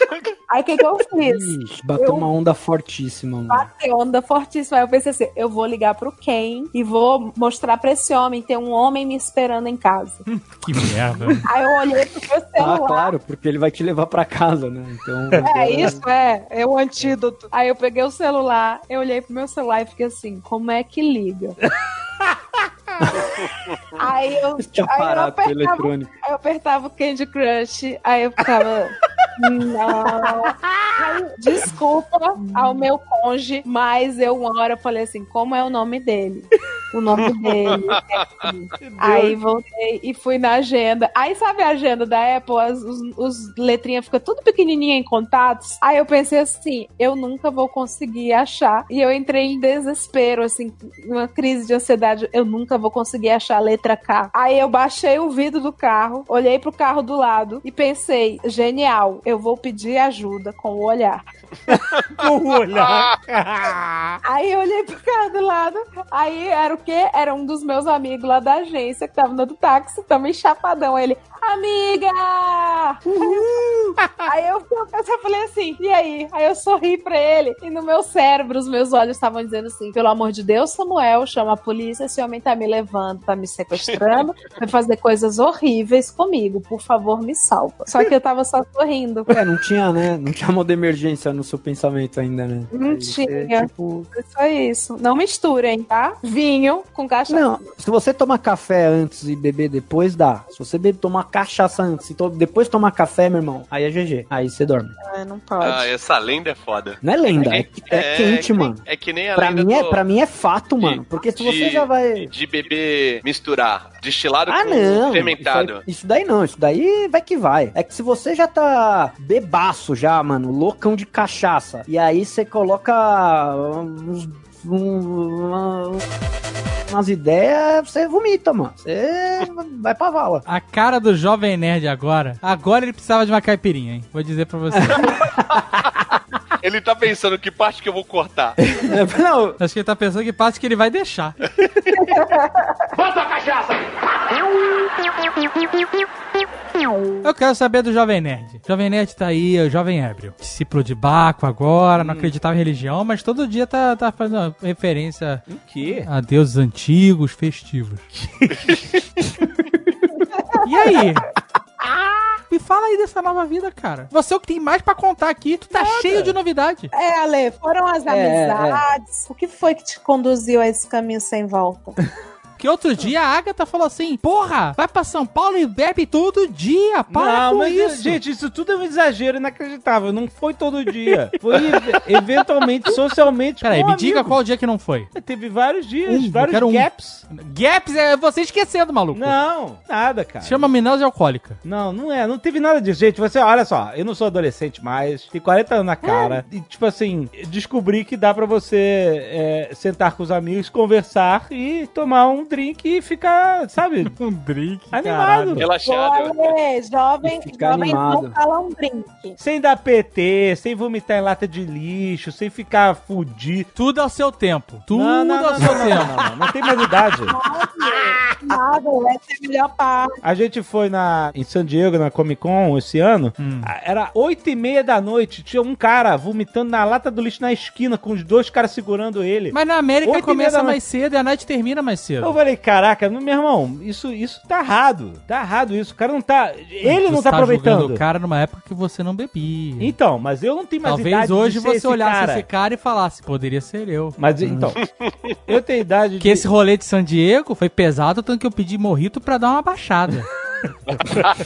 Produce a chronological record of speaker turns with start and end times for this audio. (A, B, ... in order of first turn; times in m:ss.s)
0:00.5-0:02.3 A
0:01.2-0:03.7 B
0:03.5-0:10.3 A
0:10.5-0:11.5 C
0:11.4-0:13.1 A
0:12.6-0:16.0 B
0:15.4-0:21.6 A
0:24.0-1:01.2 A
0:24.6-0:26.1 B
0:30.4-0:30.9 D
0:37.1-0:38.5 E
0:38.8-0:39.4 D
1:01.7-1:04.2 D
1:02.7-1:03.1 E
1:04.2-1:29.4 A
1:23.8-1:24.2 E
1:29.3-1:34.1 B
1:32.7-1:37.6 A
1:37.3-1:44.9 B
1:45.0-1:45.9 A
1:45.6-1:50.0 E
1:47.0-1:48.8 B
1:49.4-1:52.3 B
1:50.8-1:55.8 E
1:54.5-2:06.0 B
2:06.9-2:10.4 B
2:10.5-2:15.2 C
2:14.7-2:15.1 B
2:16.6-2:18.6 E
2:18.8-2:19.6 B
2:19.6-2:21.4 C
2:22.0-2:22.8 A
2:27.2-2:38.1 C
2:32.0-2:32.3 D
2:35.5-2:36.1 D
2:38.2-2:39.0 D
2:40.3-2:40.7 A
2:40.6-2:41.3 C
2:42.5-2:46.9 C
2:45.7-2:46.4 D
2:46.9-2:52.0 A
2:48.1-2:48.9 B
2:52.6-2:58.2 C
2:57.1-3:04.4 D
3:03.6-3:05.1 C
3:05.1-3:07.2 D
3:06.1-3:09.4 C
3:09.1-3:10.7 D
3:10.4-3:11.6 C
3:11.6-3:24.1 D
3:16.0-3:16.4 A
3:24.0-3:25.7 C
3:24.9-3:25.7 D
3:25.6-3:26.6 E
3:25.8-3:29.4 A
3:27.2-3:28.4 B
3:29.4-3:33.7 D
3:33.8-3:36.1 C
3:34.9-3:38.4 D
3:37.2-3:40.2 A
3:40.2-3:50.8 D
3:43.4-3:43.7 C
3:49.5-3:52.4 C
3:52.2-3:58.0 D
3:56.8-3:59.9 C
3:59.8-4:02.5 D
4:00.8-4:04.2 C
4:04.2-4:04.8 D
4:05.5-4:06.5 D
4:06.2-4:10.3 C